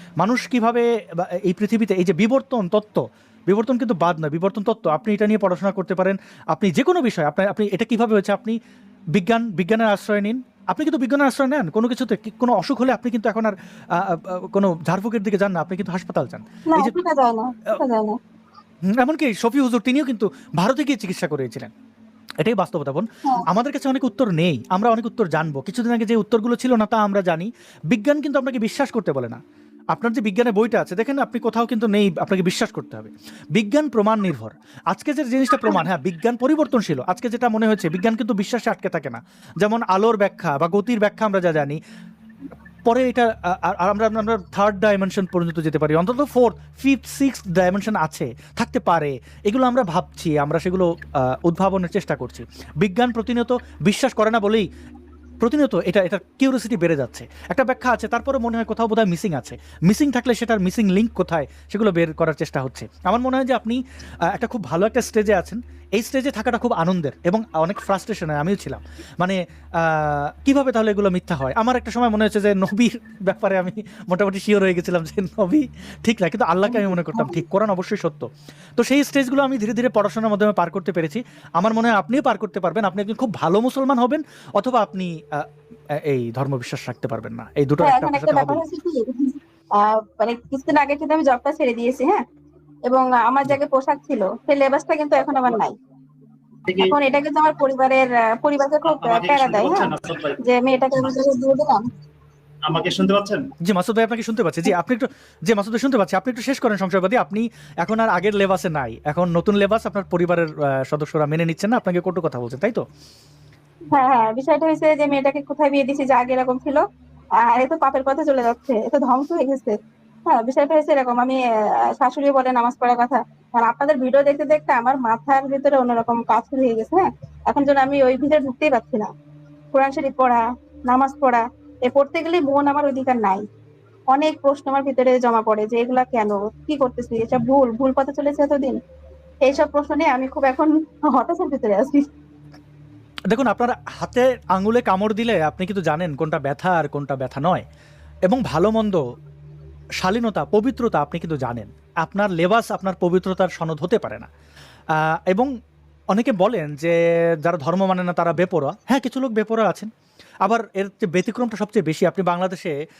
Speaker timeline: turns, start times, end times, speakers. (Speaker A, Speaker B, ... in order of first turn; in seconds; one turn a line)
Speaker A: 0.2-8.6
Speaker A: 9.1-16.9
Speaker B: 16.7-18.2
Speaker A: 19.0-21.7
Speaker A: 22.4-29.4
Speaker A: 29.9-41.8
Speaker A: 42.9-54.7
Speaker A: 55.4-78.3
Speaker B: 76.7-77.4
Speaker A: 78.8-85.4
Speaker A: 86.0-88.6
Speaker B: 87.8-92.2
Speaker B: 92.9-95.8
Speaker C: 96.7-97.0
Speaker B: 96.8-99.9
Speaker C: 98.8-100.4
Speaker B: 100.4-101.9
Speaker C: 102.6-103.4
Speaker A: 103.6-112.8
Speaker B: 113.9-116.8
Speaker B: 117.4-119.8
Speaker B: 120.3-129.1
Speaker B: 129.7-133.4
Speaker B: 134.1-138.8
Speaker B: 139.4-142.1
Speaker A: 143.3-147.6
Speaker A: 148.3-149.0
Speaker A: 150.0-154.3
Speaker A: 155.0-155.5
Speaker A: 156.1-159.9
Speaker A: 160.4-162.7